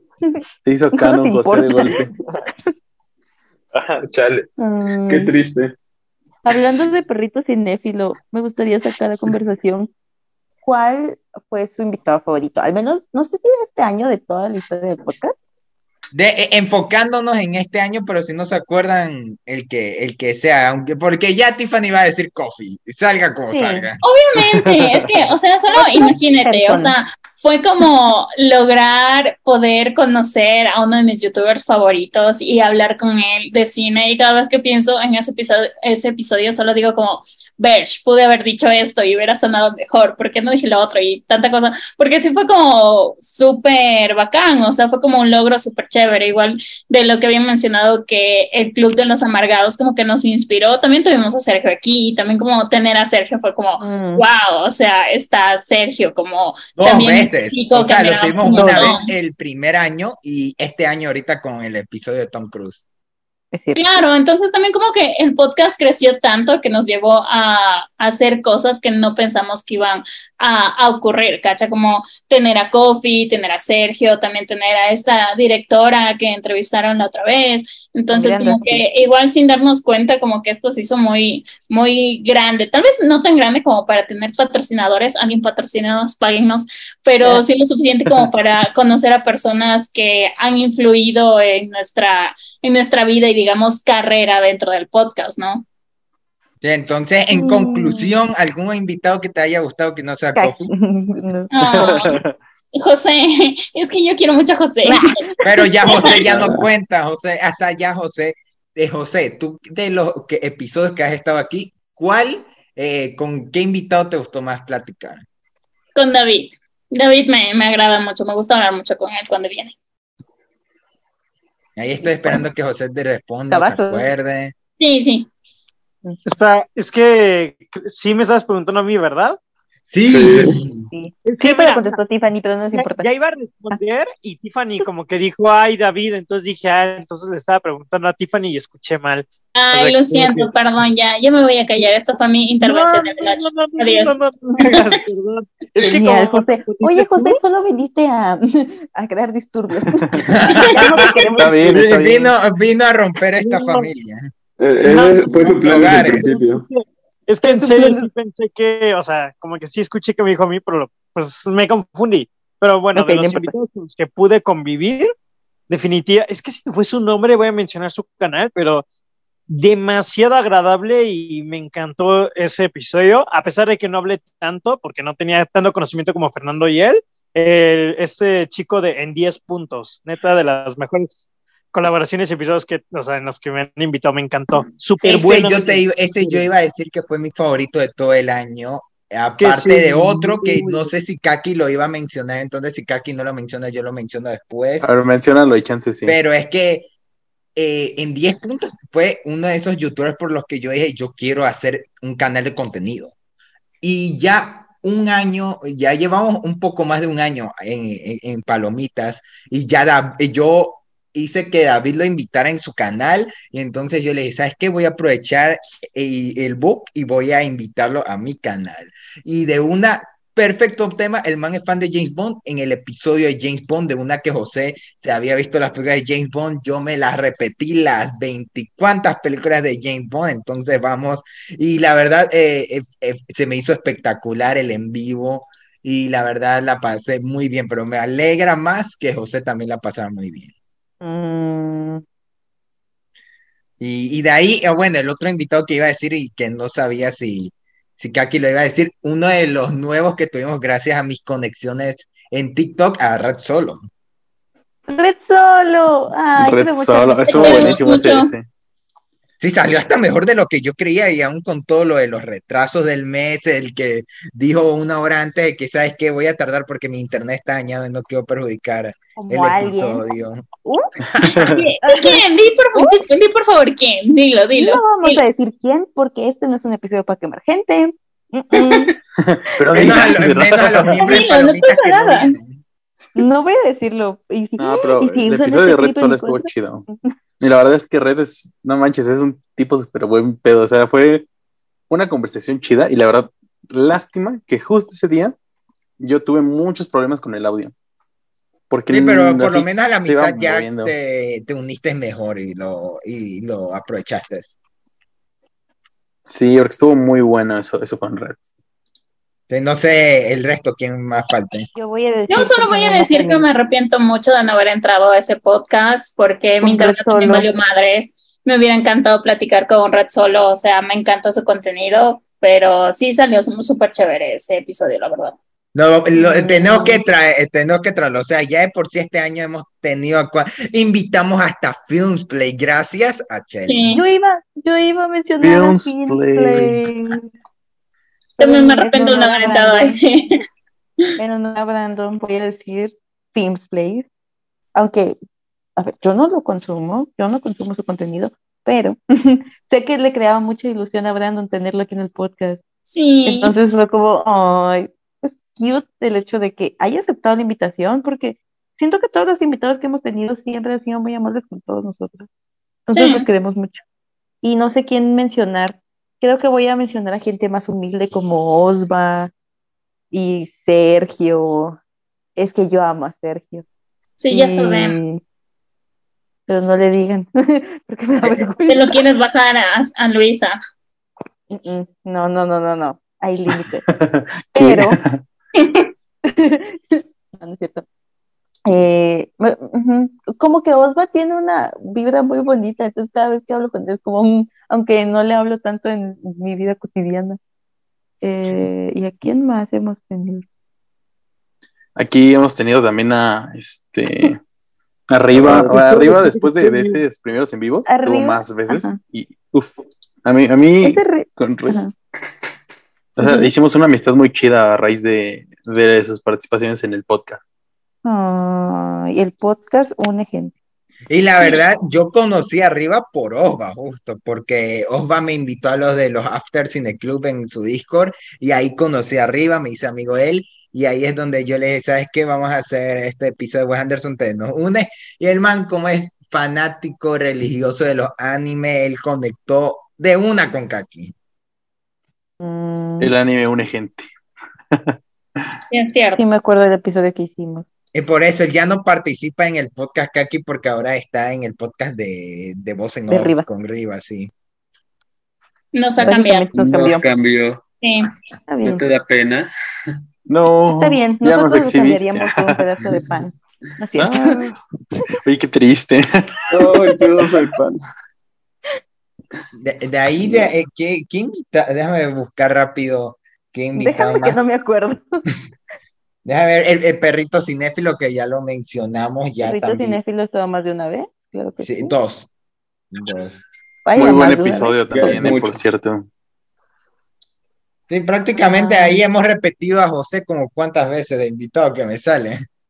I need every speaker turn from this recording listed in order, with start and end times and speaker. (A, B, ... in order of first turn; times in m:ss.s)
0:00.6-0:02.1 A
0:00.9-0:02.0 B
0:03.7-0:04.5 C
0:04.6-0:05.3 B
0:05.1-0:05.7 C
0:06.4-0:09.9 B
0:10.6-0:15.4 B
0:16.1-0:24.0 D
0:23.5-0:23.9 B
0:24.0-0:59.1 E
0:24.4-0:25.1 A
0:25.7-0:27.0 B
0:53.8-0:54.3 B
0:56.8-1:02.8 D
0:58.5-0:59.0 B
1:03.5-1:03.9 B
1:03.8-1:35.6 E
1:18.1-1:18.8 B
1:36.6-1:40.7 D
1:37.3-1:38.2 B
1:40.4-1:41.5 B
1:41.5-1:42.2 E
1:41.6-1:42.4 A
1:42.8-1:45.2 E
1:44.8-1:45.3 B
1:45.4-1:55.2 D
1:45.9-1:46.1 E
1:46.3-1:46.7 C
1:56.0-1:59.7 E
2:01.8-2:04.5 D
2:03.5-2:04.1 B
2:04.8-2:05.3 E
2:06.2-2:09.4 F
2:09.9-2:10.9 D
2:10.1-2:10.6 C
2:10.9-2:13.1 B
2:11.2-2:12.0 F
2:12.7-2:20.5 F
2:19.5-2:25.0 E
2:22.6-2:27.4 F
2:25.8-2:30.2 B
2:30.0-2:30.4 A
2:30.3-2:31.1 D
2:30.7-2:31.8 F
2:31.4-2:32.3 A
2:31.6-2:34.3 D
2:33.4-2:33.9 F
2:34.6-2:36.6 C
2:34.8-2:45.1 F
2:35.6-2:36.3 D
2:37.4-2:38.1 B
2:42.9-2:43.5 B
2:45.7-2:48.8 F
2:49.5-3:01.1 F
3:01.7-3:06.5 F
3:05.0-3:14.9 D
3:09.4-3:10.9 F
3:14.8-3:16.2 A
3:16.0-3:16.9 D
3:17.6-3:23.1 D
3:23.8-4:00.5 D
4:01.0-4:02.0 B
4:03.8-4:13.9 D
4:14.9-4:17.8 B
4:16.4-4:18.5 A
4:17.3-4:18.3 E
4:19.4-4:30.5 D
4:29.2-4:30.1 B
4:31.2-4:31.6 A
4:31.4-4:35.2 E
4:31.8-4:32.2 B
4:34.5-4:39.0 B
4:38.6-4:38.9 E
4:39.2-4:41.2 A
4:39.7-4:42.6 D
4:41.0-4:42.4 E
4:43.2-4:47.1 B
4:44.6-4:46.8 A
4:47.4-4:51.3 A
4:51.9-4:55.4 A
4:56.0-4:57.7 A
4:58.7-5:00.9 A
4:58.9-5:04.6 D
5:06.3-5:08.4 A
5:09.5-5:11.7 D
5:11.8-5:13.5 B
5:12.3-5:25.4 E
5:16.6-5:17.5 B
5:25.8-5:33.9 D
5:26.1-5:27.0 B
5:33.7-5:34.0 E
5:33.9-5:37.3 B
5:35.4-5:36.9 A
5:38.4-5:40.0 B
5:38.4-5:40.4 E
5:41.2-5:44.1 B
5:44.8-5:45.2 B
5:45.8-5:52.6 B
5:52.9-5:53.5 E
5:53.2-6:02.3 B
6:02.9-6:03.8 B
6:02.9-6:03.3 E
6:04.4-6:09.3 B
6:10.1-6:11.8 B
6:12.4-6:13.6 B
6:14.2-6:15.0 E
6:14.3-6:15.2 B
6:16.5-6:19.0 B
6:18.7-6:20.6 E
6:21.5-6:23.8 B
6:23.9-6:25.2 A
6:24.5-6:25.0 B
6:25.6-6:25.9 E
6:26.3-6:27.8 B
6:28.7-6:37.4 B
6:38.2-6:40.4 B
6:42.0-6:44.4 A
6:45.1-6:51.8 A
6:45.3-6:45.9 C
6:45.5-6:47.0 F
6:47.9-6:49.0 B
6:50.8-6:51.9 B
6:53.2-6:57.4 A
6:53.2-6:53.5 B
6:58.0-7:00.5 B
7:01.1-7:21.1 D
7:22.4-7:23.1 B
7:23.0-7:24.1 A
7:25.7-7:26.2 E
7:26.2-7:27.6 B
7:27.9-7:34.3 D
7:33.1-7:33.5 B
7:35.7-7:36.5 E
7:36.0-7:37.0 B
7:36.5-7:37.6 C
7:37.8-7:38.1 E
7:38.5-7:38.8 B
7:38.6-7:39.5 C
7:40.3-7:43.0 A
7:40.7-7:44.5 B
7:44.0-7:44.6 A
7:45.2-7:46.7 A
7:46.5-7:47.8 C
7:49.5-7:54.4 D
7:50.2-7:50.5 C
7:53.8-7:55.2 B
7:56.2-8:00.0 D
7:59.4-8:02.0 B
8:01.6-8:02.3 D
8:02.9-8:03.4 D
8:03.8-8:05.3 B
8:04.0-8:06.1 A
8:04.9-8:05.6 C
8:07.9-8:12.4 D
8:08.4-8:09.0 B